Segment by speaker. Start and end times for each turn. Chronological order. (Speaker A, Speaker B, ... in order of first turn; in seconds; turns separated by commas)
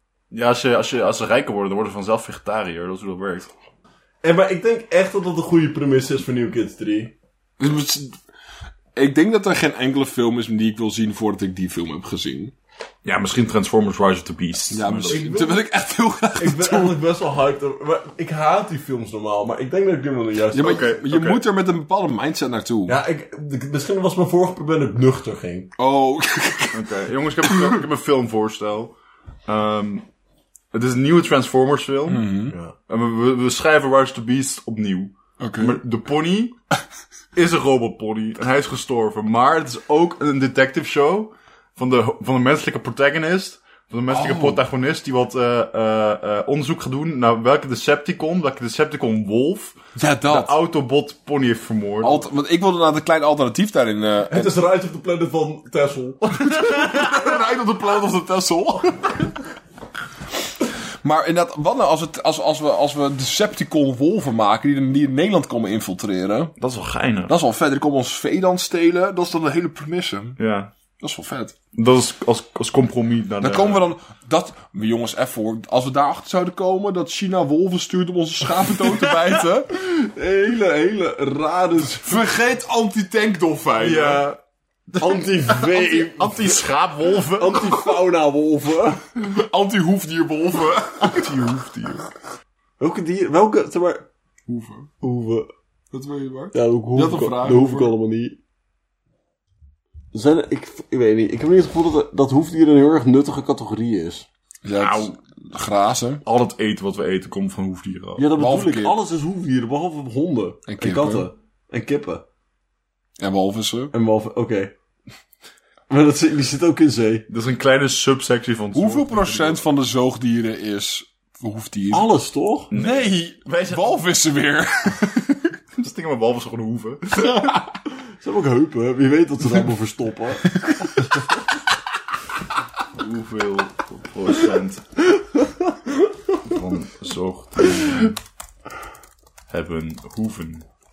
Speaker A: 0.3-3.5, Speaker B: 4.2-7.1, Speaker C: 7.6-8.2, Speaker C: 8.9-12.5, Speaker A: 13.0-15.3, Speaker C: 14.7-17.0, Speaker B: 15.1-15.6, Speaker B: 16.4-20.9, Speaker C: 20.5-23.0, Speaker A: 20.6-21.4, Speaker B: 22.9-25.7, Speaker C: 25.8-27.8, Speaker A: 26.7-28.9, Speaker A: 29.5-30.0, Speaker A: 30.7-32.3, Speaker C: 32.1-32.5, Speaker B: 32.5-32.7, Speaker A: 32.9-36.5, Speaker C: 35.4-35.8, Speaker A: 37.4-52.2, Speaker C: 44.1-44.6, Speaker C: 50.0-50.6, Speaker C: 52.0-54.5, Speaker B: 54.3-56.5, Speaker C: 56.4-59.3, Speaker A: 56.6-57.2, Speaker C: 61.0-66.5, Speaker A: 66.6-67.3, Speaker C: 67.3-70.4, Speaker A: 70.4-70.7, Speaker C: 71.0-71.5, Speaker A: 71.8-73.8, Speaker C: 73.4-79.7, Speaker B: 79.8-82.2, Speaker C: 82.0-84.3, Speaker A: 83.8-84.4, Speaker A: 84.9-87.8, Speaker B: 85.0-86.6, Speaker B: 87.3-89.1, Speaker C: 89.1-91.6, Speaker A: 91.0-91.9, Speaker B: 92.8-94.0, Speaker C: 94.5-94.9, Speaker B: 95.0-95.5, Speaker C: 95.9-97.9, Speaker B: 96.5-98.4, Speaker B: 100.1-104.3, Speaker C: 104.6-106.2, Speaker A: 104.8-105.1, Speaker A: 106.2-108.2, Speaker B: 108.2-112.2, Speaker C: 108.3-109.0, Speaker C: 110.7-111.3, Speaker C: 113.2-113.9, Speaker B: 113.9-114.7, Speaker B: 115.9-117.3, Speaker A: 117.3-119.6, Speaker C: 118.7-122.1, Speaker B: 121.9-122.7, Speaker A: 122.7-124.0, Speaker C: 122.7-125.5, Speaker A: 125.8-127.6, Speaker C: 127.3-127.6, Speaker B: 128.2-130.9, Speaker C: 130.6-130.9, Speaker A: 133.0-134.8, Speaker A: 136.4-138.2, Speaker A: 139.5-140.6